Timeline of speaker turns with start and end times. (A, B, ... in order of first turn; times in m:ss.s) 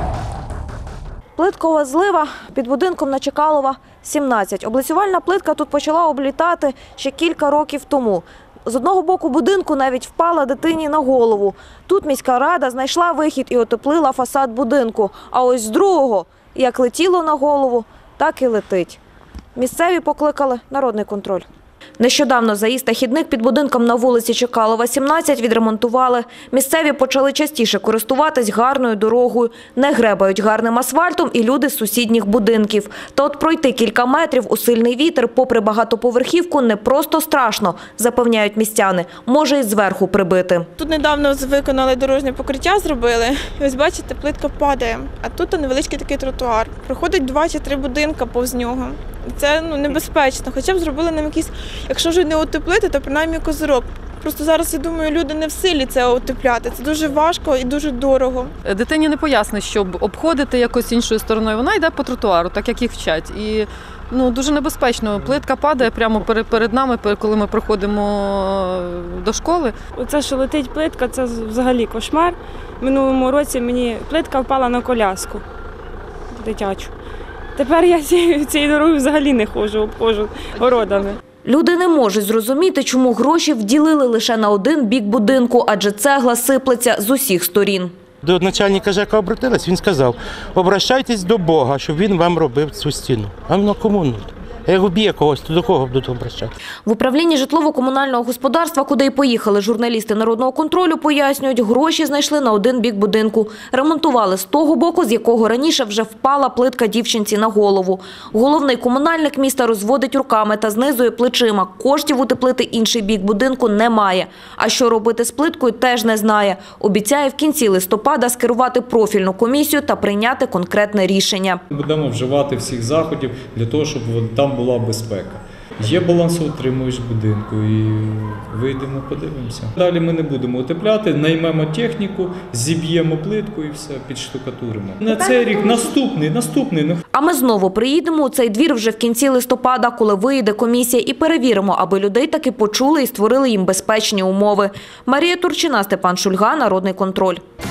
0:01.4-0:19.0 A
0:19.5-0:21.4 A
0:22.0-0:40.7 A
0:40.8-0:58.5 B
0:58.6-1:09.7 C
1:10.0-1:15.4 D
1:16.3-1:16.9 D
1:17.6-1:21.2 D
1:21.4-1:27.9 A
1:28.2-1:36.5 E
1:36.8-2:01.6 A
2:01.7-2:17.0 F
2:17.1-2:27.4 A